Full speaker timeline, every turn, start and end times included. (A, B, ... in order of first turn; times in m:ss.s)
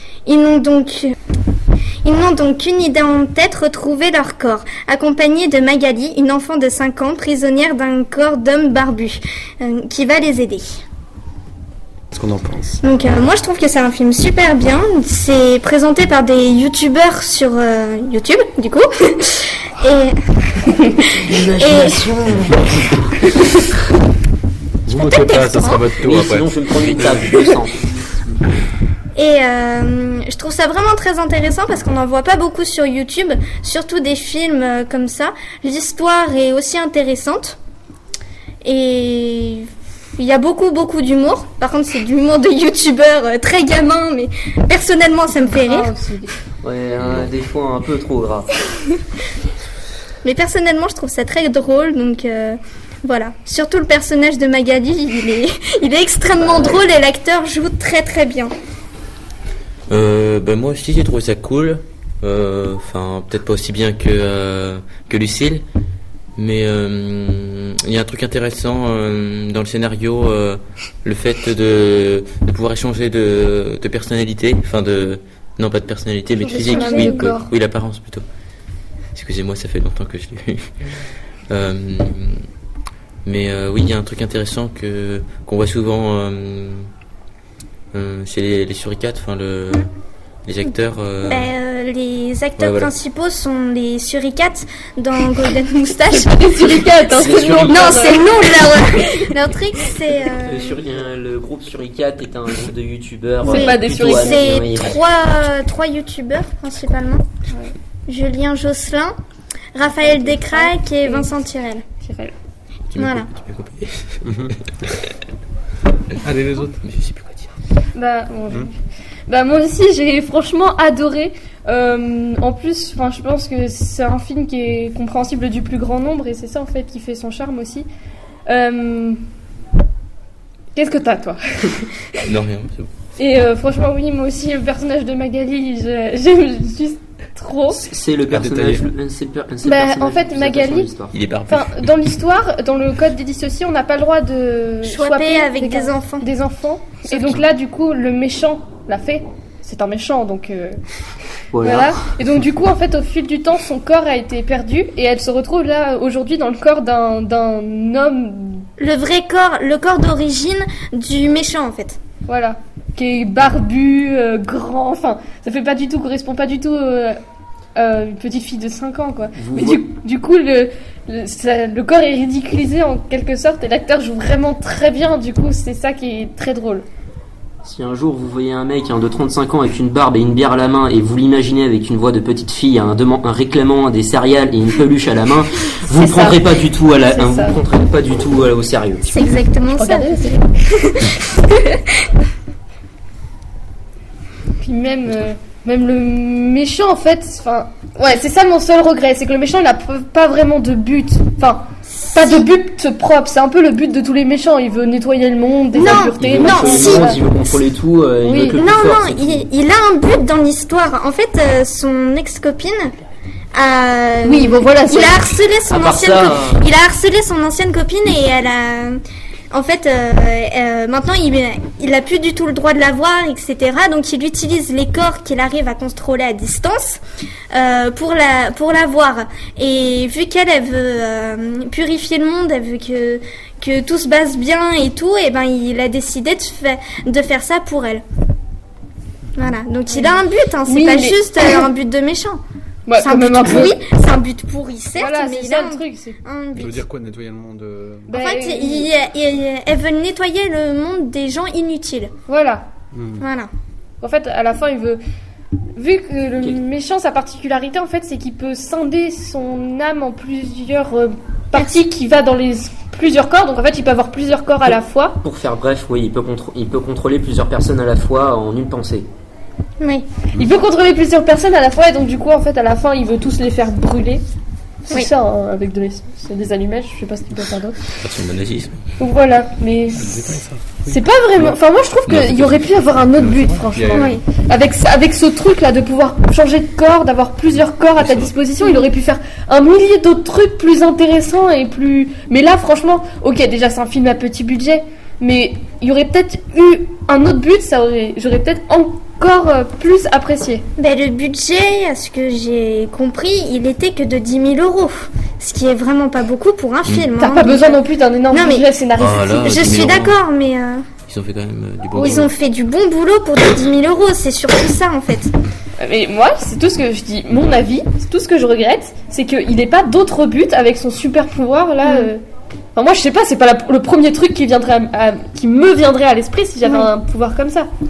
0:00.3-0:01.1 A
0:02.0-0:10.8 A
0:12.1-0:12.8 B
0:12.8-0:22.1 A
0:21.2-0:23.1 C
0:24.9-0:27.4 B
0:24.9-0:25.9 A
0:26.0-0:28.4 C
0:29.2-0:37.6 A
0:38.6-0:45.9 A
0:45.6-0:46.3 D
0:46.6-0:48.5 C
0:47.0-0:47.3 E
0:50.2-0:58.5 A
0:56.4-0:56.8 C
0:59.9-1:05.6 E
1:06.4-1:18.2 E
1:16.4-1:17.5 D
1:16.5-1:17.4 A
1:19.2-1:20.7 E
1:21.5-1:22.4 E
1:23.2-1:26.9 E
1:27.9-1:29.9 E
1:30.4-1:31.5 E
1:31.3-1:36.9 A
1:32.6-1:32.9 E
1:36.1-1:38.2 D
1:37.1-1:38.2 C
1:37.6-1:40.8 A
1:40.4-1:45.0 C
1:43.4-1:44.4 D
1:43.5-1:47.2 A
1:48.1-1:49.2 A
1:49.8-1:51.8 A
1:50.0-1:51.3 D
1:52.0-1:52.3 D
1:52.9-1:54.2 E
1:53.0-1:53.3 A
1:54.2-1:54.5 B
1:56.2-1:56.8 B
1:56.8-1:57.5 E
1:58.0-1:58.7 D
1:59.3-2:07.9 D
2:08.5-2:09.2 D
2:10.8-2:12.2 D
2:12.2-2:12.9 E
2:13.2-2:17.9 D
2:17.7-2:21.1 C
2:18.3-2:18.8 B
2:19.6-2:20.9 D
2:21.1-2:21.9 E
2:21.5-2:30.8 D
2:24.8-2:26.3 A
2:31.5-2:32.1 C
2:31.6-2:38.7 D
2:38.8-2:42.0 A
2:42.3-2:47.2 D
2:47.8-2:56.8 D
2:49.4-2:49.8 C
2:57.6-3:09.1 C
3:05.9-3:06.4 D
3:07.0-3:07.6 D
3:09.1-3:11.8 A
3:09.7-3:10.4 D
3:14.6-3:21.6 D
3:21.9-3:22.5 A
3:22.2-3:27.2 D
3:25.8-3:27.2 A
3:25.8-3:29.4 C
3:28.2-3:28.6 D
3:28.6-3:32.9 A
3:33.5-3:47.0 A
3:34.2-3:35.3 D
3:35.7-3:36.6 C
3:47.5-3:58.0 A
3:59.4-4:02.4 A
3:59.9-4:01.7 D
4:02.9-4:03.8 D
4:03.0-4:06.8 A
4:05.0-4:06.2 D
4:06.6-4:08.1 B
4:08.1-4:08.9 D
4:08.1-4:12.1 A
4:12.3-4:12.7 D
4:12.9-4:13.2 B
4:13.2-4:13.5 A
4:14.0-4:15.0 D
4:15.8-4:25.2 D
4:21.5-4:21.8 A
4:25.2-4:29.1 C
4:29.8-4:30.1 A
4:30.4-4:34.2 D
4:34.9-4:37.8 D
4:38.0-4:38.9 E
4:39.0-5:00.6 D
4:40.0-4:41.0 B
4:42.1-4:42.7 E
4:43.2-4:44.1 B
4:43.9-4:44.2 A
4:48.0-4:48.3 E
4:48.6-4:48.9 A
5:00.8-5:08.7 A
5:07.2-5:09.6 D
5:09.0-5:10.2 E
5:09.4-5:10.9 A
5:11.1-5:12.3 E
5:12.0-5:12.3 D
5:12.0-5:15.3 A
5:15.8-5:22.2 D
5:21.8-5:22.1 A
5:22.8-5:27.7 D
5:26.6-5:26.9 A